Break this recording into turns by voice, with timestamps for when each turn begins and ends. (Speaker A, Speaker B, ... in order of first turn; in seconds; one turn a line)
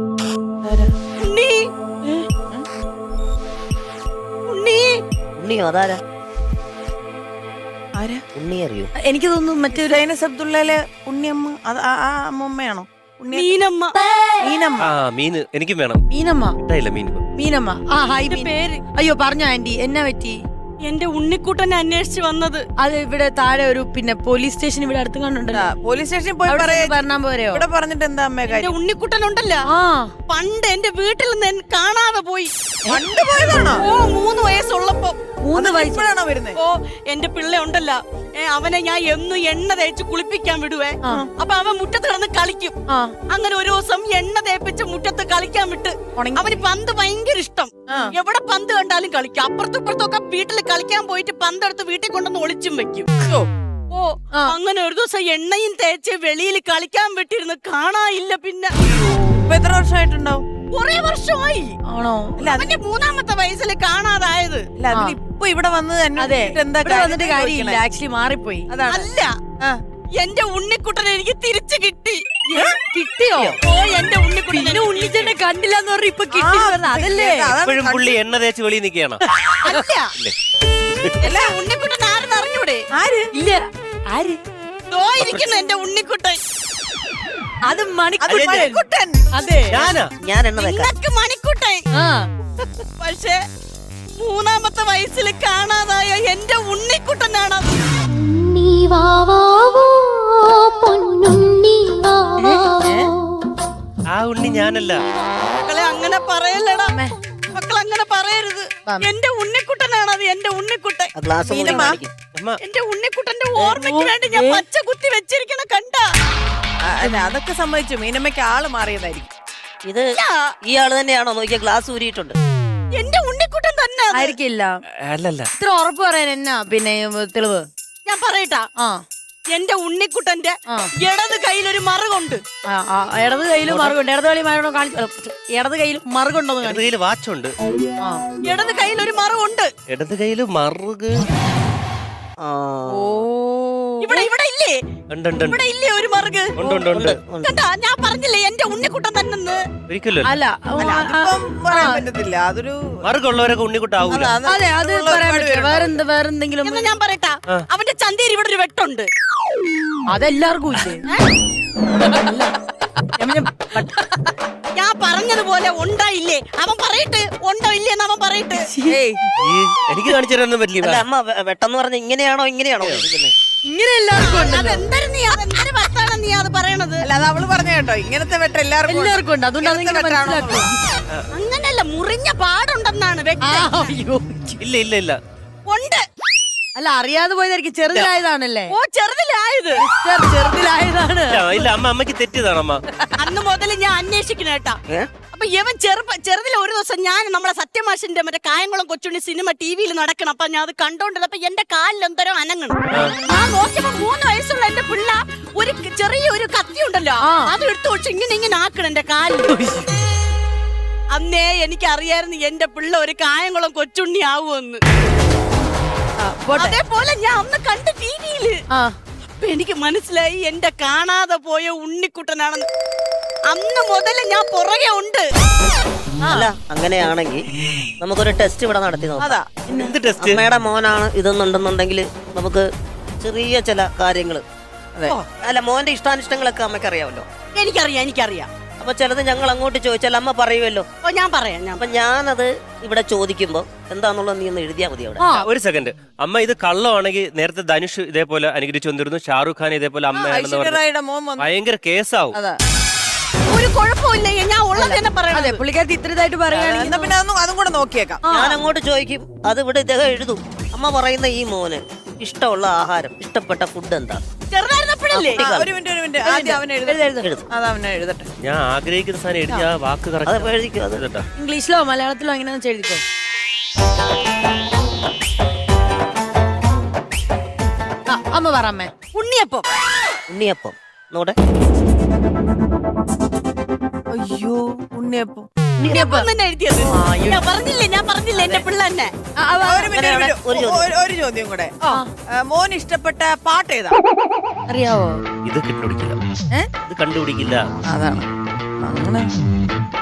Speaker A: 0.6-0.9
Speaker B: 1.2-1.6
Speaker A: 2.0-2.7
Speaker B: 4.5-5.0
Speaker C: 5.4-6.0
Speaker A: 8.0-8.2
Speaker C: 8.3-8.9
Speaker D: 9.1-10.0
Speaker A: 9.7-13.5
Speaker B: 13.3-14.0
Speaker A: 14.4-14.9
Speaker E: 14.8-16.0
Speaker D: 16.1-16.5
Speaker E: 16.6-17.2
Speaker D: 17.4-20.4
Speaker B: 18.2-18.8
Speaker B: 20.8-22.6
Speaker D: 22.8-25.6
Speaker A: 25.5-27.0
Speaker D: 26.5-27.6
Speaker A: 27.5-28.7
Speaker B: 28.5-29.6
Speaker D: 29.8-30.1
Speaker B: 30.3-32.5
Speaker D: 32.9-33.5
Speaker A: 32.9-33.8
Speaker B: 33.5-35.2
Speaker D: 35.5-36.1
Speaker A: 35.5-36.6
Speaker B: 36.5-42.8
Speaker B: 43.3-53.2
Speaker D: 46.2-46.6
Speaker A: 47.9-48.1
Speaker B: 53.9-58.7
Speaker A: 59.3-60.4
Speaker B: 60.7-61.8
Speaker D: 62.0-62.4
Speaker A: 62.4-62.7
Speaker B: 62.4-64.7
Speaker A: 64.8-67.8
Speaker D: 66.2-68.6
Speaker A: 68.7-69.1
Speaker B: 68.9-69.3
Speaker B: 70.2-72.7
Speaker D: 72.9-73.6
Speaker B: 73.6-75.3
Speaker D: 74.5-77.5
Speaker A: 76.3-78.2
Speaker E: 77.6-79.2
Speaker B: 79.6-80.0
Speaker A: 79.7-80.1
Speaker A: 81.2-81.5
Speaker B: 81.2-82.8
Speaker A: 82.9-83.3
Speaker D: 83.4-84.4
Speaker B: 84.9-86.4
Speaker E: 85.2-85.5
Speaker D: 87.7-88.7
Speaker A: 88.2-89.2
Speaker E: 88.3-88.8
Speaker D: 89.3-89.8
Speaker E: 89.7-90.1
Speaker C: 90.2-90.9
Speaker B: 90.6-91.8
Speaker B: 92.6-93.4
Speaker B: 94.2-97.8
Speaker D: 102.4-102.7
Speaker A: 102.8-103.1
Speaker E: 104.1-105.0
Speaker B: 105.5-106.9
Speaker B: 107.5-111.1
Speaker C: 111.1-112.1
Speaker A: 111.5-112.0
Speaker B: 112.6-116.1
Speaker D: 113.6-114.6
Speaker A: 116.8-119.3
Speaker B: 120.2-120.5
Speaker C: 120.7-122.3
Speaker B: 123.0-124.3
Speaker D: 124.1-124.7
Speaker E: 125.0-125.5
Speaker D: 125.6-127.6
Speaker B: 128.1-128.7
Speaker B: 129.5-132.4
Speaker D: 132.7-136.9
Speaker E: 133.7-134.0
Speaker E: 136.6-137.5
Speaker B: 138.4-139.7
Speaker E: 139.9-141.1
Speaker C: 142.4-142.9
Speaker D: 143.1-144.3
Speaker B: 144.0-144.8
Speaker E: 145.1-145.6
Speaker B: 145.4-146.5
Speaker E: 146.6-147.2
Speaker A: 146.6-146.9
Speaker C: 146.9-147.6
Speaker B: 147.4-149.6
Speaker E: 149.9-150.3
Speaker D: 150.2-152.0
Speaker A: 150.8-153.0
Speaker E: 153.0-154.4
Speaker A: 154.0-156.0
Speaker D: 154.5-156.9
Speaker B: 156.6-159.1
Speaker D: 160.1-161.0
Speaker D: 162.0-162.5
Speaker D: 163.2-164.1
Speaker B: 164.8-168.7
Speaker A: 168.9-169.2
Speaker E: 169.4-171.0
Speaker C: 170.8-173.3
Speaker D: 173.7-174.8
Speaker B: 174.2-177.1
Speaker A: 177.0-180.7
Speaker D: 178.9-180.6
Speaker B: 181.3-183.9
Speaker D: 183.4-184.5
Speaker E: 184.6-185.2
Speaker B: 185.7-186.0
Speaker D: 186.8-188.7
Speaker B: 188.7-189.8
Speaker D: 189.9-191.6
Speaker E: 191.3-192.8
Speaker B: 193.2-194.8
Speaker B: 195.3-209.6
Speaker E: 202.9-203.2
Speaker B: 211.1-214.8
Speaker D: 216.2-216.8
Speaker B: 216.5-218.6
Speaker B: 219.4-222.7
Speaker B: 223.5-225.2
Speaker C: 226.2-227.4
Speaker A: 226.2-226.5
Speaker C: 228.0-232.7
Speaker A: 229.2-229.7
Speaker E: 229.7-230.4
Speaker C: 233.2-234.4
Speaker C: 235.4-237.2
Speaker B: 237.5-238.5
Speaker C: 238.8-240.8
Speaker B: 241.0-241.9
Speaker C: 241.8-245.2
Speaker D: 245.2-245.4
Speaker E: 245.3-250.8
Speaker A: 250.2-251.5
Speaker E: 251.4-252.4
Speaker B: 253.5-255.6
Speaker D: 254.7-257.1
Speaker A: 256.5-258.2
Speaker D: 258.2-258.6
Speaker C: 258.3-264.2
Speaker B: 264.5-265.4
Speaker C: 265.1-265.7
Speaker A: 265.4-268.3
Speaker D: 266.3-267.2
Speaker C: 267.2-267.4
Speaker E: 268.4-271.2
Speaker C: 270.2-271.0
Speaker D: 271.4-273.0
Speaker D: 278.1-278.9
Speaker B: 279.1-279.6
Speaker C: 280.3-281.4
Speaker A: 284.1-285.5
Speaker B: 285.9-289.1
Speaker D: 285.9-286.3
Speaker D: 286.9-287.5
Speaker A: 288.4-288.6
Speaker D: 289.5-289.8
Speaker A: 289.6-294.0
Speaker C: 289.9-290.9
Speaker D: 294.7-295.1
Speaker E: 295.4-296.1
Speaker E: 296.8-297.6
Speaker A: 297.9-298.2
Speaker A: 298.8-299.3